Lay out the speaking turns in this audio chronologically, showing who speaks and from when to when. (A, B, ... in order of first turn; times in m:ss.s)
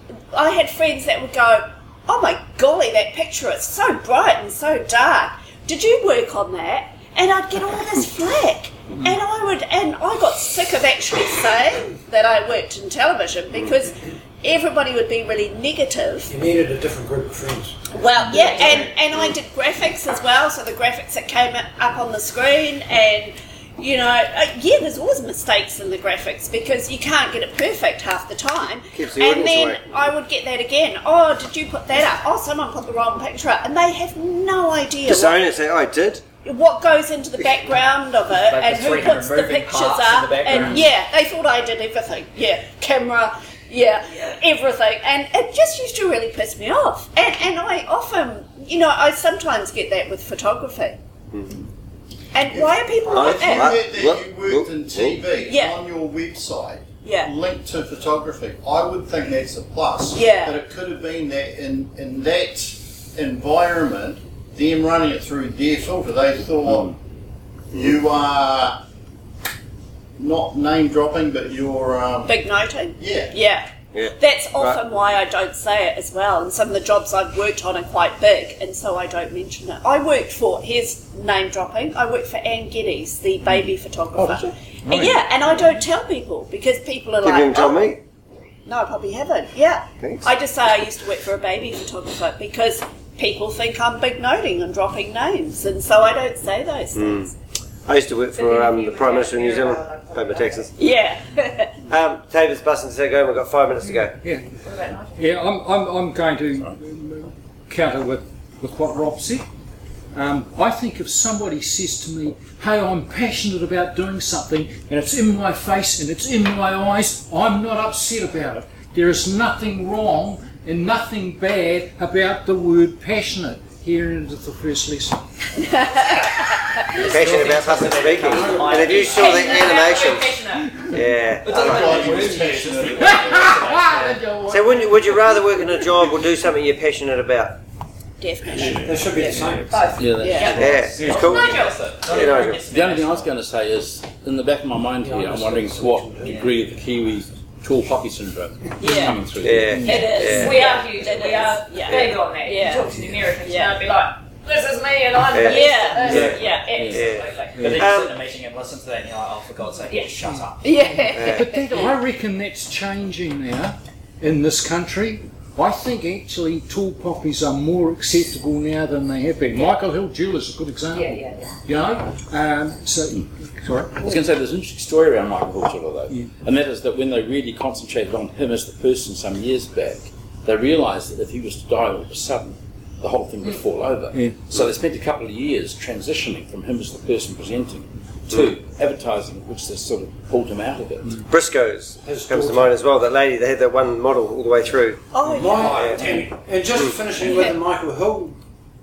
0:00.3-0:16.3 A
0:16.3-0:17.9 B
0:17.9-0:35.5 A
0:18.3-0:18.9 C
0:28.9-0:29.9 D
0:35.0-0:36.3 D
0:36.4-0:51.0 A
0:38.4-0:40.9 E
0:51.3-0:51.6 D
0:52.3-0:53.8 A
0:52.5-1:07.0 F
0:53.1-0:55.2 D
0:55.4-0:55.8 A
0:57.0-0:57.3 A
1:00.1-1:00.6 A
1:07.7-1:08.8 F
1:10.2-1:12.4 F
1:12.3-1:13.7 A
1:13.0-1:13.3 F
1:13.9-1:14.8 D
1:14.2-1:28.0 A
1:24.2-1:24.5 G
1:24.8-1:25.8 H
1:27.2-1:28.0 D
1:28.7-1:37.4 A
1:30.0-1:30.3 D
1:37.0-1:37.3 D
1:37.9-1:40.7 D
1:38.3-1:40.7 C
1:40.8-1:41.8 A
1:41.9-1:44.2 D
1:44.2-1:44.5 H
1:44.6-1:45.4 C
1:45.2-1:49.5 H
1:50.1-2:05.3 H
2:05.6-2:07.0 A
2:06.9-2:10.1 E
2:07.0-2:10.4 D
2:07.4-2:08.7 H
2:09.0-2:10.8 C
2:10.5-2:11.0 H
2:10.9-2:12.3 D
2:11.4-2:14.2 E
2:11.5-2:13.8 F
2:13.0-2:15.9 H
2:14.5-2:17.6 D
2:18.2-2:19.5 A
2:18.5-2:18.9 G
2:18.8-2:19.9 B
2:19.7-2:22.2 C
2:19.9-2:20.9 G
2:20.2-2:20.6 A
2:20.4-2:23.3 E
2:20.5-2:22.6 D
2:21.0-2:21.4 H
2:22.1-2:30.6 G
2:25.0-2:26.6 B
2:26.2-2:26.6 E
2:28.8-2:29.3 A
2:29.4-2:30.7 D
2:29.7-2:30.1 H
2:29.8-2:37.7 C
2:29.9-2:33.8 A
2:35.3-2:36.3 D
2:35.5-2:36.6 A
2:36.1-2:36.4 E
2:36.1-2:37.1 G
2:36.9-2:38.2 D
2:37.0-2:40.6 E
2:37.6-2:37.8 H
2:39.9-2:40.2 C
2:40.6-2:41.9 A
2:40.8-2:54.2 H
2:41.2-2:41.4 D
2:50.9-2:51.5 C
2:53.9-3:11.2 G
3:04.1-3:04.4 H
3:11.3-3:15.1 D
3:12.0-3:12.8 B
3:15.1-3:16.1 A
3:15.2-3:16.3 H
3:15.3-3:18.4 B
3:15.6-3:16.0 D
3:17.2-3:17.5 A